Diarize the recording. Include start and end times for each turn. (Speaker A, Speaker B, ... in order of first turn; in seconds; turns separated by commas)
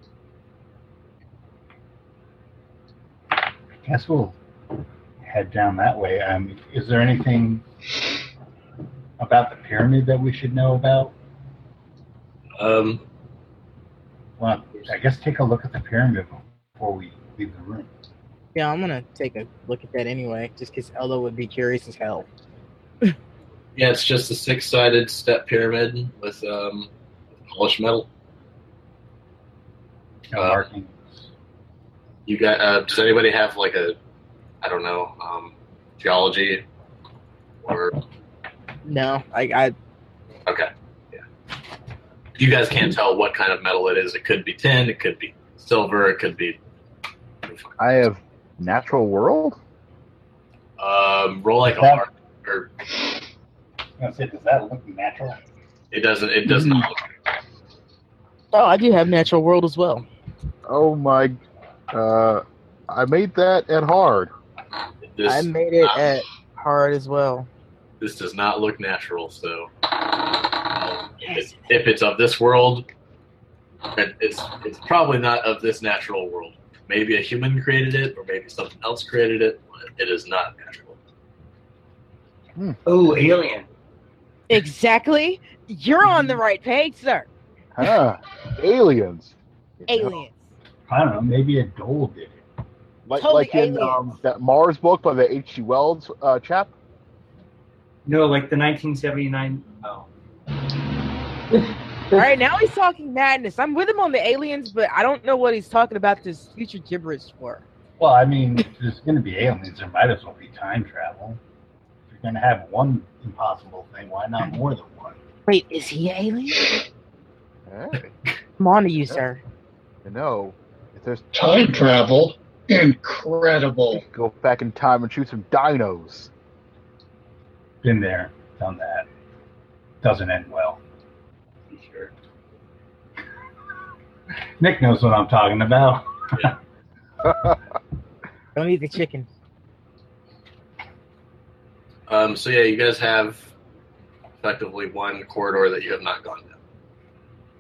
Speaker A: 3.8-4.4, Speaker A: 5.2-7.7, Speaker A: 9.2-11.1, Speaker B: 12.6-13.0, Speaker A: 14.4-17.9, Speaker C: 18.6-22.3, Speaker B: 23.8-26.9, Speaker B: 27.5-28.1, Speaker A: 30.3-31.3, Speaker B: 32.3-34.0, Speaker B: 34.6-36.6, Speaker B: 37.6-38.0, Speaker C: 38.9-39.8, Speaker B: 40.5-41.2, Speaker B: 42.4-46.6, Speaker B: 47.5-47.8, Speaker D: 47.8-49.6, Speaker B: 50.8-52.7, Speaker A: 51.6-52.0, Speaker A: 54.0-55.4, Speaker B: 55.9-57.0, Speaker C: 58.5-60.1, Speaker D: 60.7-61.4, Speaker D: 61.9-64.3, Speaker B: 65.1-66.1, Speaker C: 65.2-67.5, Speaker B: 68.0-69.7, Speaker B: 70.7-72.9, Speaker C: 71.3-71.5, Speaker B: 74.0-81.0, Speaker E: 82.8-83.7, Speaker C: 84.5-87.3, Speaker D: 86.0-86.4, Speaker D: 87.8-90.2, Speaker C: 89.9-90.4, Speaker A: 90.9-92.4, Speaker D: 93.1-96.7, Speaker C: 93.2-94.2, Speaker E: 98.0-100.1, Speaker C: 102.1-107.6, Speaker A: 108.0-111.4, Speaker A: 112.1-115.2, Speaker C: 115.5-116.7, Speaker D: 117.7-118.1, Speaker C: 118.6-119.4, Speaker D: 120.0-121.6, Speaker F: 121.3-124.0, Speaker D: 123.9-126.3, Speaker A: 127.8-129.1, Speaker A: 130.0-130.8, Speaker E: 131.7-132.1, Speaker A: 134.6-136.5, Speaker C: 138.6-139.3, Speaker B: 142.1-143.5, Speaker B: 144.4-146.6